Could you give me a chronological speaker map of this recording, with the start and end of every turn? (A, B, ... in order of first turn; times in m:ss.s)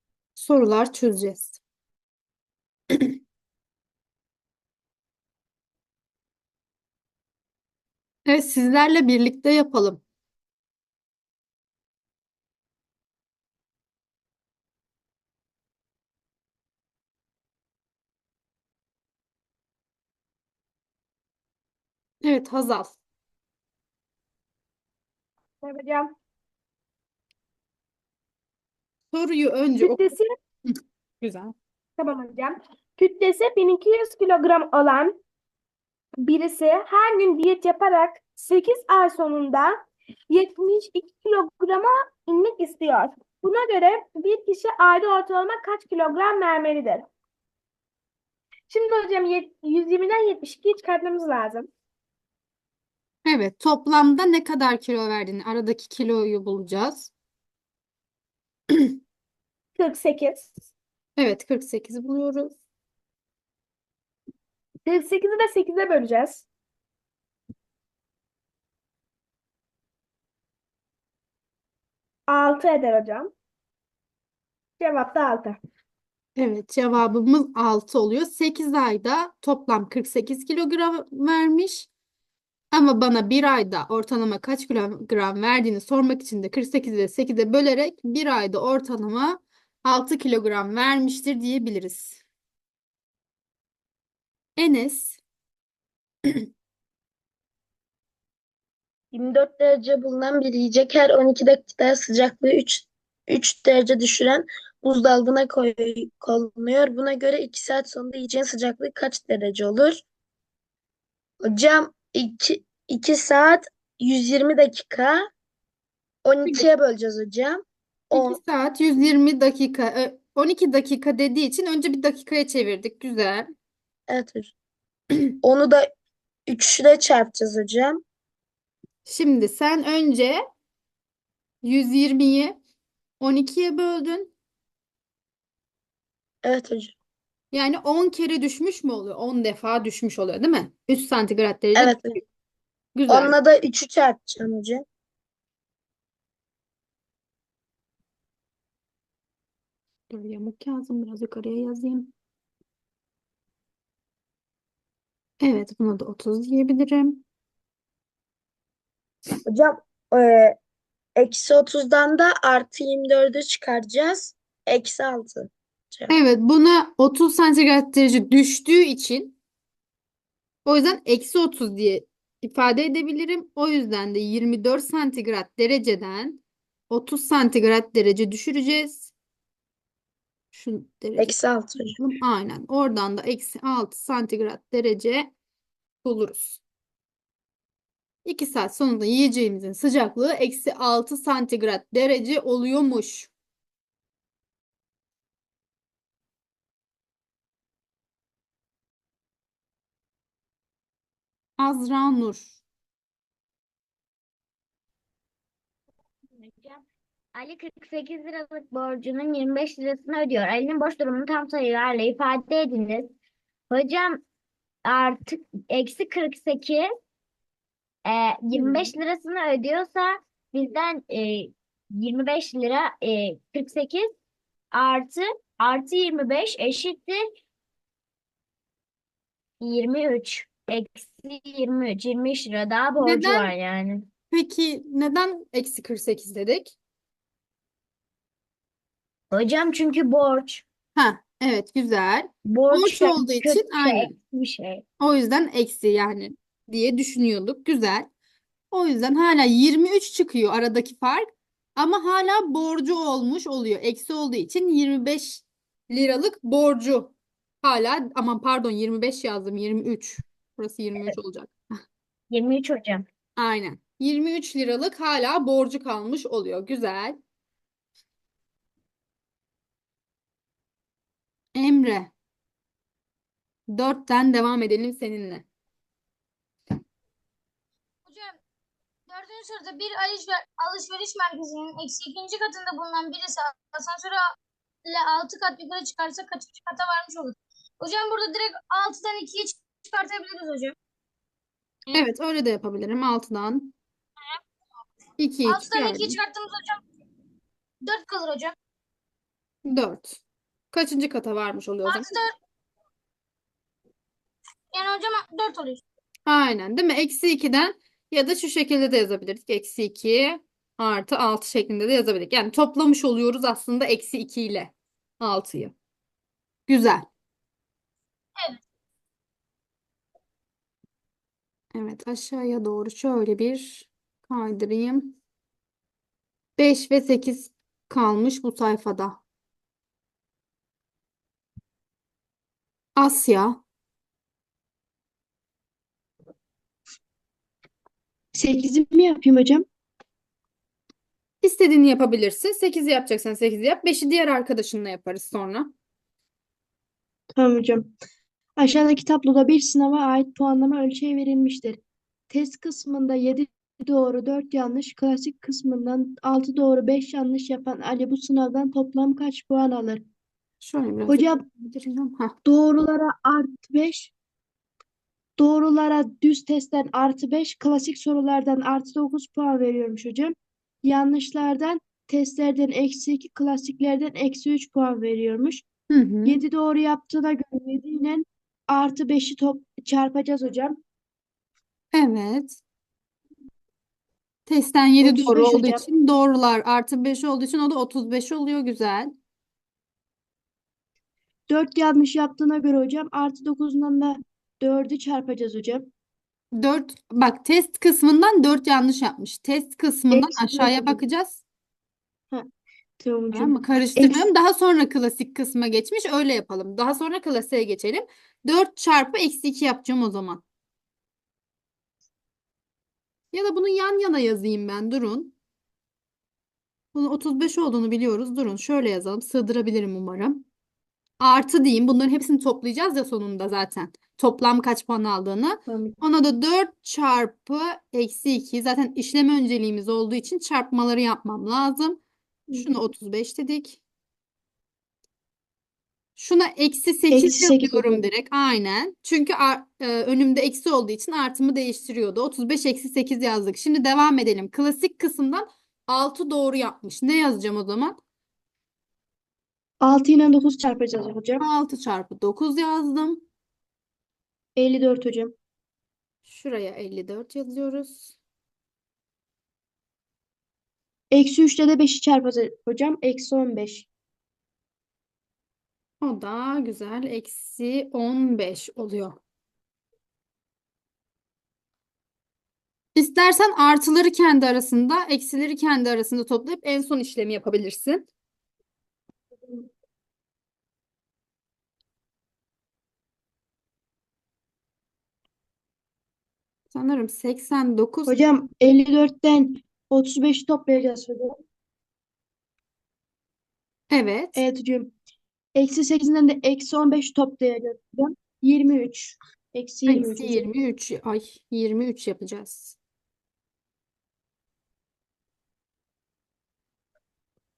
0:00.4-0:01.6 A
0:08.3-0:10.0 A
0:22.2-0:23.0 A
0:25.6-0:26.1 B
0:29.1-0:30.1 A
0:29.8-0:30.3 B
0:30.7-0:31.5 A
0:32.0-0:35.2 B
0:36.2-0:47.1 B
0:48.7-0:51.7 B
0:53.2-0:57.1 A
0:59.8-1:00.5 B
1:01.2-1:02.6 A
1:04.8-1:06.5 B
1:12.3-1:13.3 B
1:14.8-1:15.6 B
1:16.4-1:21.9 A
1:22.7-1:32.2 A
1:34.6-1:35.2 A
1:39.1-1:50.0 C
1:51.4-1:55.2 C
1:56.2-1:57.6 C
1:58.1-2:03.5 A
1:58.1-1:58.4 C
2:04.1-2:04.5 C
2:05.4-2:05.9 C
2:06.5-2:08.0 C
2:09.1-2:10.4 A
2:11.6-2:12.6 A
2:13.2-2:14.3 A
2:16.4-2:16.9 C
2:17.5-2:22.2 A
2:21.8-2:22.2 C
2:22.9-2:23.3 A
2:23.1-2:24.8 C
2:30.1-2:32.1 A
2:35.4-2:37.2 A
2:39.4-2:40.6 C
2:41.2-2:46.2 C
2:46.1-2:49.4 A
2:50.7-2:59.1 A
3:00.5-3:01.4 A
3:01.2-3:02.0 C
3:02.0-3:05.3 A
3:06.0-3:06.6 A
3:08.2-3:13.3 A
3:21.6-3:22.6 A
3:26.4-3:26.8 D
3:27.3-3:33.1 D
3:33.7-3:34.2 D
3:34.8-3:36.9 D
3:38.1-3:44.1 D
3:44.7-3:47.2 D
3:49.6-3:54.1 D
3:53.0-3:53.5 A
3:54.3-3:56.8 A
3:59.3-4:00.6 D
4:01.0-4:04.2 A
4:02.5-4:04.8 D
4:05.0-4:08.1 A
4:08.7-4:21.8 A
4:22.3-4:23.0 D
4:23.4-4:27.2 A
4:31.6-4:32.1 A
4:33.7-4:35.4 A
4:38.1-4:38.4 E
4:39.1-4:44.3 E
4:44.9-4:50.8 E
4:51.9-4:53.8 A
4:55.2-4:56.2 A
4:55.4-4:56.8 E
4:57.8-4:58.5 E
4:59.6-5:00.2 A
5:00.7-5:02.1 A
5:01.9-5:02.3 E
5:04.7-5:05.8 E
5:06.2-5:15.8 A
5:16.7-5:17.1 A
5:21.7-5:25.1 A
5:26.6-5:29.2 A
5:33.0-5:33.6 A
5:38.3-5:39.6 F
5:41.4-5:45.7 A
5:47.4-5:47.9 F
5:48.6-5:51.8 F
5:52.3-6:00.0 F
6:00.6-6:02.3 A
6:01.1-6:01.4 F
6:02.4-6:04.1 F
6:05.4-6:15.6 F
6:15.9-6:16.4 A
6:16.2-6:20.8 F
6:21.9-6:22.6 A
6:24.5-6:29.1 A
6:25.0-6:25.8 F
6:31.5-6:35.9 F
6:36.6-6:41.4 A
6:40.1-6:41.0 F
6:43.0-6:44.3 F
6:43.3-6:50.4 A
6:53.3-6:55.3 A
6:56.9-7:00.4 A
7:01.2-7:12.0 A
7:05.7-7:06.0 F
7:12.5-7:13.8 A
7:16.2-7:28.0 A
7:17.1-7:18.0 F
7:29.8-7:31.4 F
7:31.4-7:33.2 A
7:34.6-7:35.3 F
7:36.2-7:38.1 A
7:41.1-7:43.9 F
7:46.0-7:49.2 A
7:52.9-7:58.1 A
8:06.7-8:08.2 A
8:08.1-8:11.4 F
8:13.9-8:14.4 A
8:14.4-8:14.9 F
8:15.6-8:20.5 F
8:19.9-8:22.8 A